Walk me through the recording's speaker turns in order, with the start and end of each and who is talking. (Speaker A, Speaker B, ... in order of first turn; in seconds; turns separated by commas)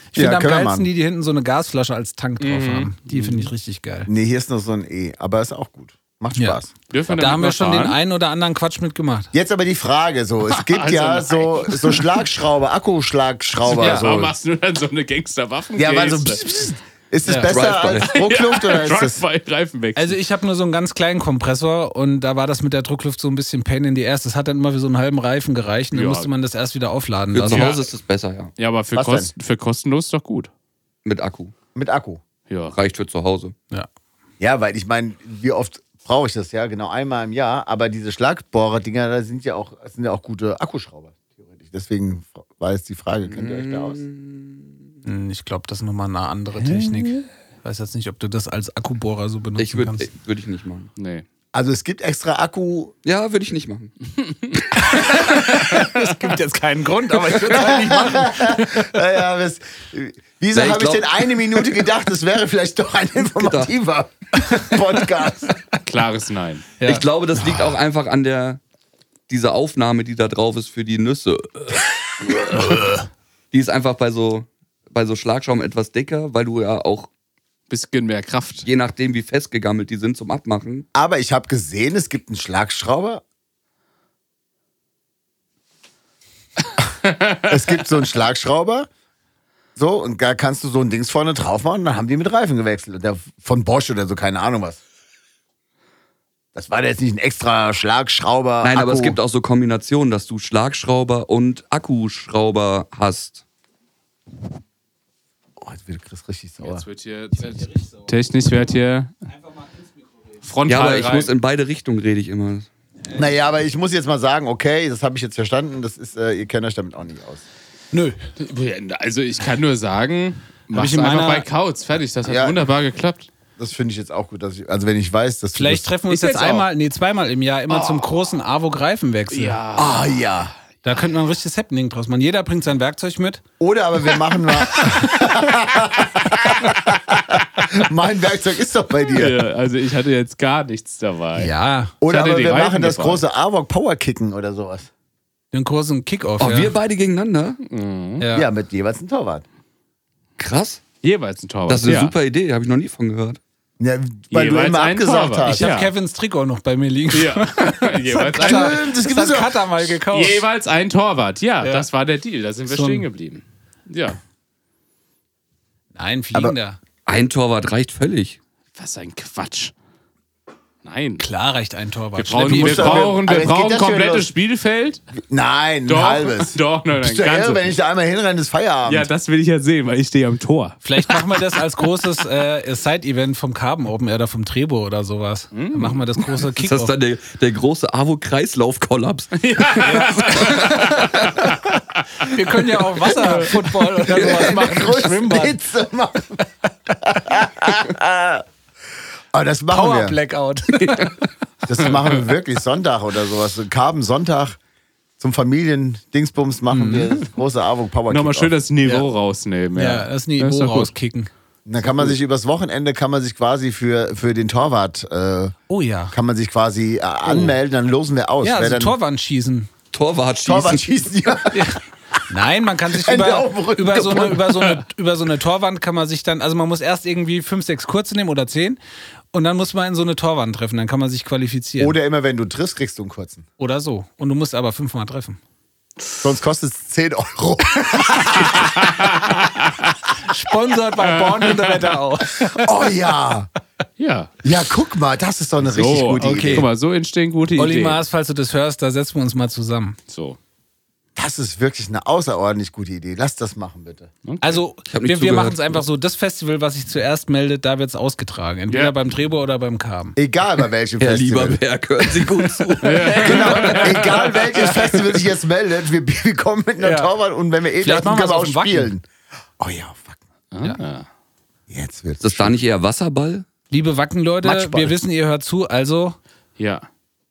Speaker A: 0.1-4.1, Speaker B: 0.1-0.9, Speaker C: 2.4-3.5, Speaker B: 4.1-6.7, Speaker C: 6.9-8.0, Speaker A: 7.1-9.3, Speaker B: 9.3-14.3, Speaker C: 10.5-12.0, Speaker C: 13.7-16.4, Speaker B: 15.8-19.2, Speaker A: 17.2-17.5, Speaker D: 17.4-18.1, Speaker C: 18.0-20.2, Speaker A: 20.0-27.7, Speaker C: 25.9-26.3, Speaker D: 27.3-28.5, Speaker C: 27.5-27.9, Speaker C: 28.6-30.5, Speaker B: 28.9-29.3, Speaker D: 31.1-31.5, Speaker B: 31.8-32.2, Speaker C: 32.5-32.8, Speaker D: 32.7-33.5, Speaker B: 34.4-44.0, Speaker D: 43.3-44.7, Speaker A: 45.0-50.1, Speaker C: 46.6-47.2, Speaker D: 49.6-50.9, Speaker C: 51.0-51.2, Speaker B: 51.5-52.9, Speaker D: 53.0-54.0, Speaker A: 54.8-59.0, Speaker C: 55.6-56.1, Speaker B: 57.5-65.6, Speaker D: 60.5-61.1, Speaker D: 63.4-63.7, Speaker C: 65.8-66.7, Speaker A: 66.8-67.0, Speaker D: 66.8-68.6, Speaker D: 69.3-73.0, Speaker D: 73.5-77.1, Speaker C: 77.7-78.7, Speaker D: 78.7-80.9, Speaker B: 80.9-83.2, Speaker C: 87.1-87.4, Speaker B: 87.4-88.9, Speaker B: 89.8-94.8, Speaker B: 96.5-99.2, Speaker D: 98.6-103.4, Speaker B: 105.6-106.8, Speaker C: 106.6-109.1, Speaker C: 110.4-111.3, Speaker D: 110.7-112.7, Speaker B: 113.1-117.4, Speaker A: 117.9-118.2, Speaker C: 118.4-123.3, Speaker A: 120.7-121.5, Speaker B: 122.2-122.7, Speaker B: 123.6-125.9, Speaker A: 125.5-129.6, Speaker C: 126.1-126.7, Speaker C: 127.7-128.1, Speaker C: 129.3-130.3, Speaker B: 129.8-130.5, Speaker A: 130.8-133.4, Speaker B: 133.6-139.5, Speaker C: 139.1-141.5, Speaker A: 141.4-141.9, Speaker B: 142.0-144.9, Speaker C: 142.1-143.2, Speaker A: 145.5-146.7, Speaker D: 146.4-147.6, Speaker C: 147.7-148.3, Speaker A: 148.2-148.5, Speaker B: 148.3-149.4, Speaker D: 150.4-150.8, Speaker C: 151.0-152.2, Speaker D: 151.7-153.4, Speaker B: 153.8-155.7, Speaker C: 154.3-155.9, Speaker A: 155.5-160.4, Speaker C: 157.1-158.8, Speaker B: 158.4-160.0, Speaker C: 160.1-164.2, Speaker A: 161.6-161.9, Speaker A: 162.7-163.1, Speaker A: 165.9-166.8, Speaker D: 167.1-168.4, Speaker C: 168.8-169.7, Speaker C: 170.8-171.3, Speaker A: 171.2-173.2, Speaker C: 172.2-175.0, Speaker B: 172.5-174.3, Speaker B: 175.3-179.1, Speaker C: 175.9-177.8, Speaker C: 178.9-181.5, Speaker A: 180.8-186.9, Speaker C: 185.5-186.3, Speaker D: 186.6-191.5, Speaker C: 189.3-192.0, Speaker A: 190.4-190.8, Speaker A: 192.2-195.6, Speaker C: 193.0-194.5, Speaker B: 194.1-196.4, Speaker B: 197.0-198.4, Speaker B: 199.3-200.2, Speaker A: 199.7-201.1, Speaker C: 200.8-201.1, Speaker B: 201.7-204.6, Speaker B: 205.2-208.5, Speaker A: 206.7-207.3, Speaker C: 208.1-210.9, Speaker A: 209.8-211.3, Speaker B: 211.7-215.5, Speaker A: 215.7-216.2, Speaker B: 216.1-219.0, Speaker A: 218.4-219.7, Speaker D: 219.9-220.9, Speaker B: 220.4-221.8, Speaker A: 221.5-228.8, Speaker B: 222.9-224.5, Speaker A: 229.3-231.9, Speaker B: 231.8-233.4, Speaker A: 233.6-235.4, Speaker B: 236.2-238.9, Speaker C: 238.5-239.9, Speaker A: 240.2-242.7, Speaker C: 241.0-241.9, Speaker B: 242.5-243.5, Speaker C: 244.0-244.3, Speaker B: 244.4-246.7, Speaker C: 245.6-248.0, Speaker A: 246.2-246.7, Speaker A: 247.6-250.0, Speaker C: 250.1-250.4, Speaker B: 251.2-254.1, Speaker C: 254.2-254.6, Speaker A: 254.4-260.2, Speaker D: 254.9-255.8, Speaker B: 260.2-261.6, Speaker D: 261.0-264.4, Speaker C: 262.8-264.9, Speaker B: 263.0-269.0, Speaker A: 266.8-267.1, Speaker A: 267.8-268.9, Speaker B: 269.6-270.2, Speaker C: 270.5-271.1, Speaker B: 271.7-272.6, Speaker D: 272.2-273.5, Speaker A: 273.7-276.2, Speaker B: 274.4-275.0, Speaker C: 276.6-276.9